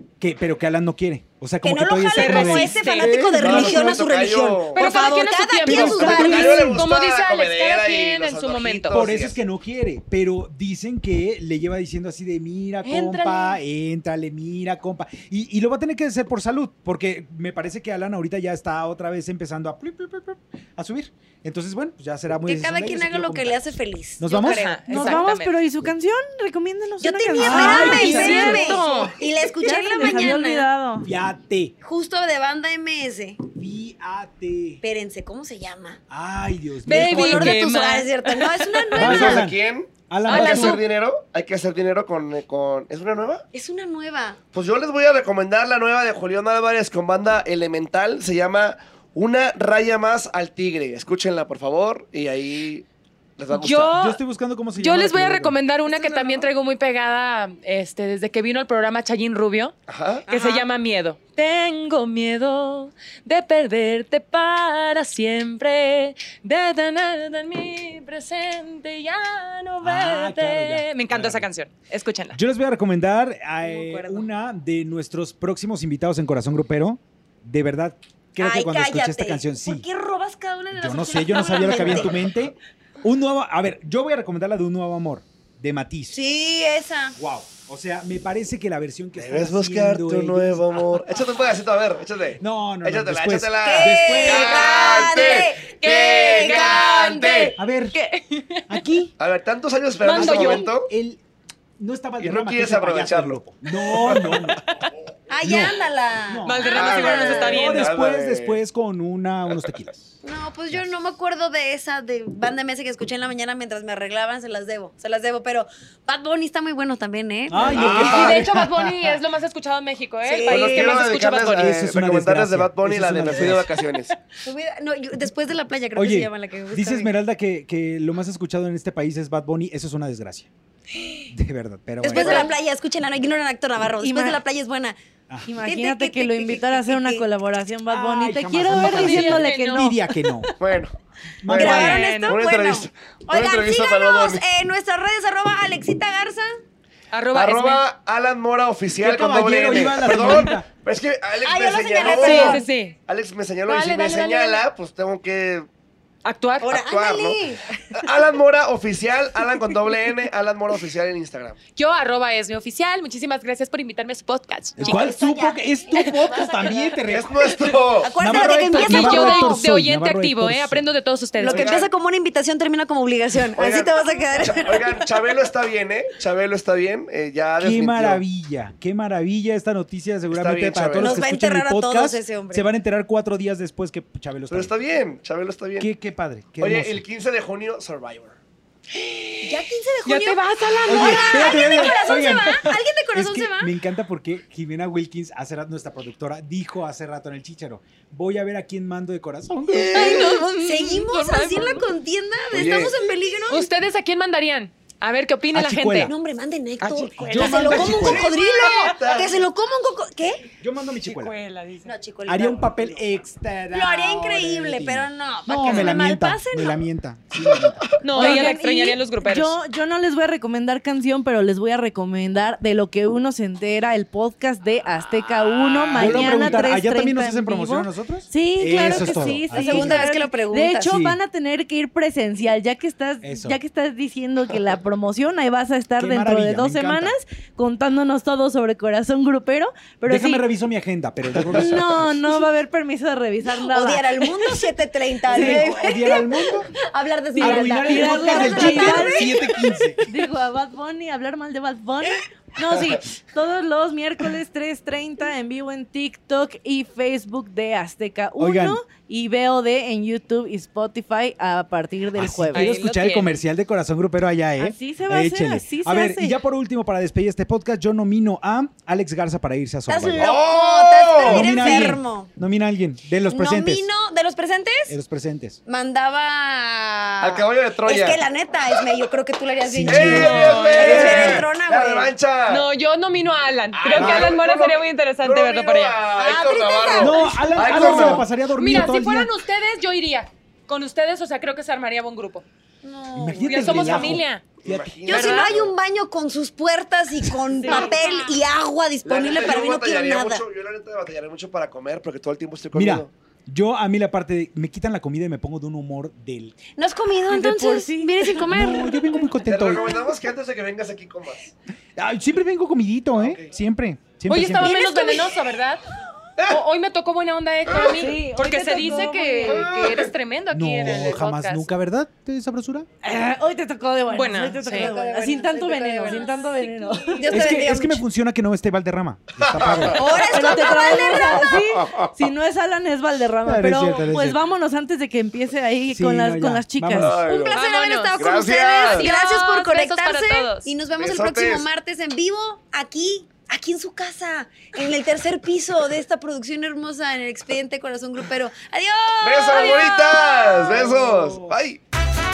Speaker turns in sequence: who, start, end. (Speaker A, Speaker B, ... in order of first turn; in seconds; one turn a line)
Speaker A: 0.2-4.2
Speaker B: 1.6-6.8
Speaker C: 2.1-3.1
Speaker D: 3.4-4.8
Speaker C: 4.8-9.0
Speaker A: 5.7-6.7
Speaker D: 5.7-9.4
Speaker A: 8.9-23.6
Speaker C: 12.8-13.6
Speaker B: 22.4-25.2
Speaker A: 24.2-24.6
Speaker C: 24.3-25.6
Speaker E: 24.9-31.1
Speaker B: 27.0-30.7
Speaker A: 27.4-28.8
Speaker C: 27.4-29.1
Speaker A: 31.0-31.7
Speaker B: 31.8-33.4
Speaker A: 33.5-34.8
Speaker B: 34.8-36.0
Speaker A: 36.1-37.6
Speaker C: 36.9-39.3
Speaker B: 36.9-39.5
Speaker A: 38.9-40.8
Speaker D: 39.0-43.4
Speaker C: 40.2-40.8
Speaker B: 43.5-44.4
Speaker D: 44.5-52.9
Speaker D: 53.4-53.9
Speaker C: 53.5-54.2
Speaker A: 53.9-55.6
Speaker C: 54.8-59.7
Speaker B: 56.1-56.4
Speaker D: 59.9-60.3
Speaker C: 60.3-72.4
Speaker B: 60.3-60.6
Speaker A: 69.8-71.5
Speaker A: 72.3-79.8
Speaker B: 73.6-74.3
Speaker B: 78.4-82.2
Speaker A: 80.7-86.2
Speaker B: 86.1-87.2
Speaker A: 87.2-91.2
Speaker D: 89.2-97.5
Speaker A: 92.4-94.6
Speaker B: 93.6-96.8
Speaker C: 94.3-98.8
Speaker A: 97.6-98.0
Speaker A: 98.7-99.1
Speaker D: 99.2-100.9
Speaker C: 100.0-100.7
Speaker A: 100.1-101.2
Speaker A: 101.8-104.8
Speaker D: 102.2-104.5
Speaker B: 105.3-107.5
Speaker A: 105.4-110.1
Speaker C: 106.4-107.9
Speaker D: 106.6-108.6
Speaker B: 110.2-118.0
Speaker A: 117.5-119.2
Speaker D: 117.6-118.4
Speaker C: 117.8-121.7
Speaker B: 120.2-121.1
Speaker D: 120.5-124.1
Speaker A: 121.4-123.7
Speaker B: 124.4-127.1
Speaker A: 126.0-130.5
Speaker C: 130.9-131.3
Speaker A: 131.3-132.5
Speaker B: 132.0-135.0
Speaker C: 132.1-132.5
Speaker E: 134.0-134.4
Speaker E: 135.4-139.9
Speaker B: 135.6-137.2
Speaker A: 137.9-140.5
Speaker C: 138.7-140.5
Speaker D: 140.6-144.4
Speaker A: 141.4-142.1
Speaker B: 141.5-146.5
Speaker C: 141.6-142.4
Speaker C: 147.1-147.8
Speaker D: 147.3-155.7
Speaker A: 149.0-150.7
Speaker B: 151.4-152.7
Speaker C: 152.0-152.9
Speaker C: 153.7-154.6
Speaker C: 156.2-156.8
Speaker B: 156.6-157.8
Speaker D: 156.6-161.6
Speaker C: 161.7-164.9
Speaker A: 164.8-167.5
Speaker B: 164.8-166.8
Speaker C: 165.9-166.9
Speaker D: 167.1-168.1
Speaker B: 168.0-169.6
Speaker A: 168.2-170.8
Speaker C: 168.4-171.8
Speaker B: 171.4-175.1
Speaker D: 171.4-171.9
Speaker D: 173.5-178.2
Speaker A: 177.6-184.7
Speaker D: 180.3-181.2
Speaker B: 181.0-182.7
Speaker D: 184.5-185.9
Speaker A: 185.8-187.0
Speaker D: 186.6-188.4
Speaker C: 188.9-192.6
Speaker B: 189.4-193.7
Speaker A: 190.9-200.3
Speaker C: 199.7-201.9
Speaker B: 199.9-203.7
Speaker D: 202.5-202.9
Speaker C: 203.5-206.1
Speaker A: 205.5-206.1
Speaker B: 206.0-210.4
Speaker C: 206.8-209.2
Speaker A: 207.2-208.3
Speaker D: 207.8-209.4
Speaker A: 210.6-211.3
Speaker C: 211.0-211.9
Speaker B: 211.8-213.1
Speaker A: 212.2-218.0
Speaker B: 213.7-216.8
Speaker C: 215.6-216.0
Speaker C: 218.0-219.6
Speaker B: 218.1-219.0
Speaker E: 218.2-240.4
Speaker C: 225.7-226.7
Speaker A: 225.9-230.1
Speaker B: 229.5-230.9
Speaker A: 230.8-231.2
Speaker A: 233.2-233.6
Speaker A: 236.0-237.1
Speaker A: 240.1-242.1
Speaker E: 241.5-244.6
Speaker B: 243.6-249.9
Speaker A: 245.3-246.7
Speaker E: 245.3-245.7
Speaker A: 247.4-250.1
Speaker E: 247.4-262.7
Speaker A: 258.4-258.8
Speaker A: 262.1-270.3
Speaker C: 262.5-263.4
Speaker E: 264.6-266.4
Speaker B: 269.9-272.3
Speaker D: 270.2-271.9
Speaker A: 271.2-273.9
Speaker B: 273.3-274.9
Speaker A: 274.9-275.6
Speaker B: 275.7-282.1
Speaker D: 277.2-278.2
Speaker A: 279.6-281.5
Speaker D: 279.9-282.6
Speaker C: 280.1-281.4
Speaker C: 282.5-286.1
Speaker D: 283.7-288.3
Speaker A: 283.9-284.4
Speaker B: 286.1-288.2
Speaker A: 286.9-289.3
Speaker C: 288.4-292.4
Speaker B: 292.8-294.2
Speaker A: 293.1-294.9
Speaker C: 293.3-294.5
Speaker D: 294.6-295.7
Speaker B: 295.0-300.4
Speaker C: 295.1-295.5
Speaker E: 297.6-297.9
Speaker D: 299.0-303.1
Speaker A: 302.7-306.5
Speaker B: 306.8-309.3
Speaker E: 307.3-308.4
Speaker A: 308.5-309.9
Speaker D: 309.4-311.5
Speaker A: 311.9-314.8
Speaker D: 313.1-313.5
Speaker C: 314.3-315.8
Speaker B: 314.6-315.4
Speaker C: 316.5-321.7
Speaker D: 317.7-318.0
Speaker E: 317.8-319.9
Speaker D: 319.5-320.1
Speaker A: 320.5-322.9
Speaker E: 323.0-327.4
Speaker C: 324.1-324.9
Speaker B: 324.6-328.0
Speaker C: 326.0-327.5
Speaker A: 327.3-330.2
Speaker D: 329.4-332.1
Speaker B: 329.9-331.5
Speaker E: 330.2-337.1
Speaker A: 333.4-334.4
Speaker A: 335.9-337.2
Speaker D: 336.9-337.6
Speaker B: 337.3-350.7
Speaker C: 337.5-338.2
Speaker D: 338.1-339.1
Speaker C: 338.8-340.7
Speaker D: 340.9-341.7
Speaker D: 349.2-351.8
Speaker A: 350.6-351.6